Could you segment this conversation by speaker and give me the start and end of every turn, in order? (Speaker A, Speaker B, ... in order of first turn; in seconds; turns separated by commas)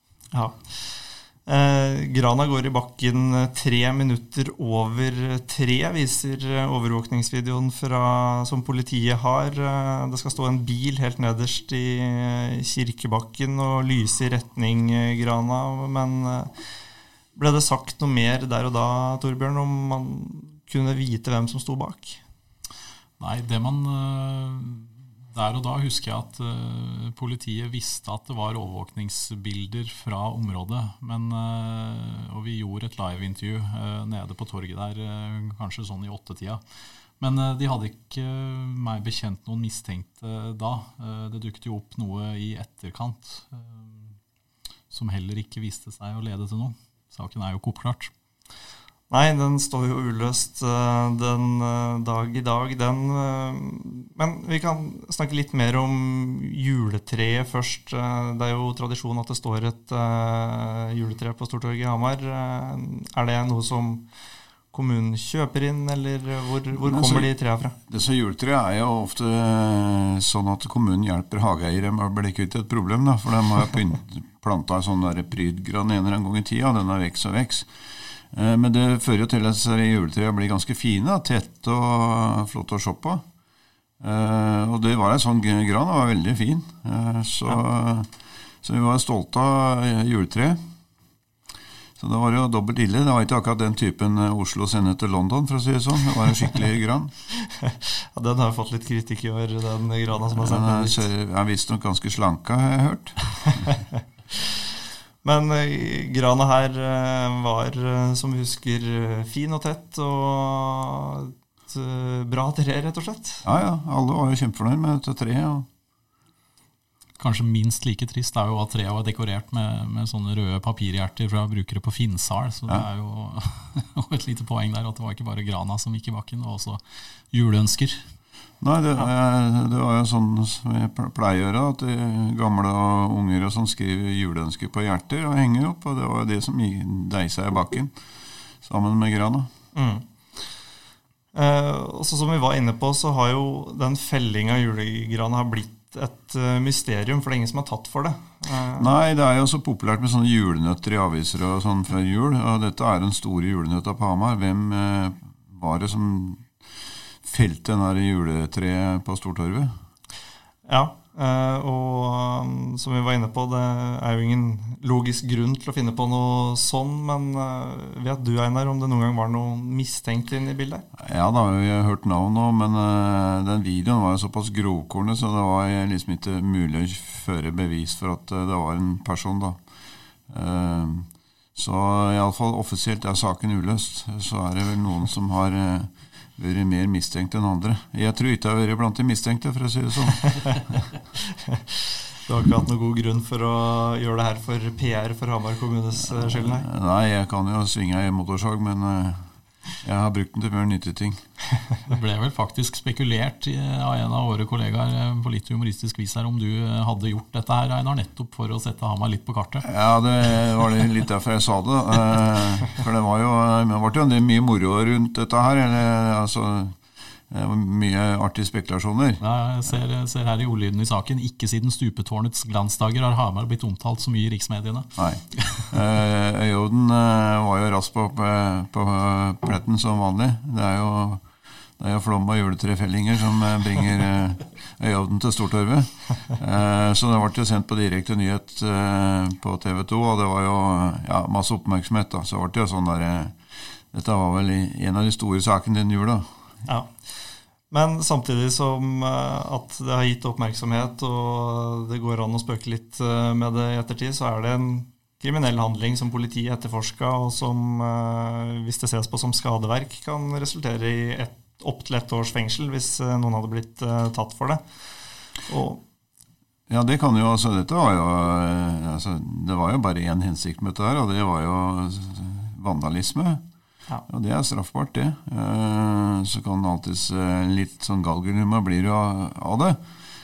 Speaker A: 0.3-16.5, Speaker A: 17.3-22.2, Speaker B: 23.2-36.6, Speaker B: 37.2-44.1, Speaker B: 44.9-48.1, Speaker A: 49.1-64.1, Speaker A: 64.7-67.8, Speaker C: 66.8-67.3, Speaker C: 67.9-77.7, Speaker C: 78.3-83.2, Speaker C: 84.0-88.1, Speaker C: 88.6-90.6, Speaker C: 92.0-97.1, Speaker A: 97.4-101.1, Speaker C: 100.3-103.7, Speaker A: 104.3-104.6, Speaker A: 105.2-113.5, Speaker C: 113.4-115.7, Speaker B: 117.2-128.0, Speaker C: 128.6-137.9, Speaker C: 138.6-139.5, Speaker A: 139.7-140.5, Speaker A: 141.3-148.9, Speaker C: 148.8-156.5, Speaker C: 157.2-159.7, Speaker A: 160.7-170.8, Speaker C: 170.9-179.6, Speaker C: 180.3-190.8, Speaker A: 191.3-196.7, Speaker C: 196.2-201.2, Speaker B: 201.8-209.7, Speaker C: 209.6-216.8, Speaker C: 217.3-219.2, Speaker B: 219.2-225.7, Speaker C: 225.0-231.3, Speaker C: 231.8-243.4, Speaker C: 243.9-246.3, Speaker A: 246.7-265.8, Speaker C: 266.7-273.4, Speaker C: 274.1-279.8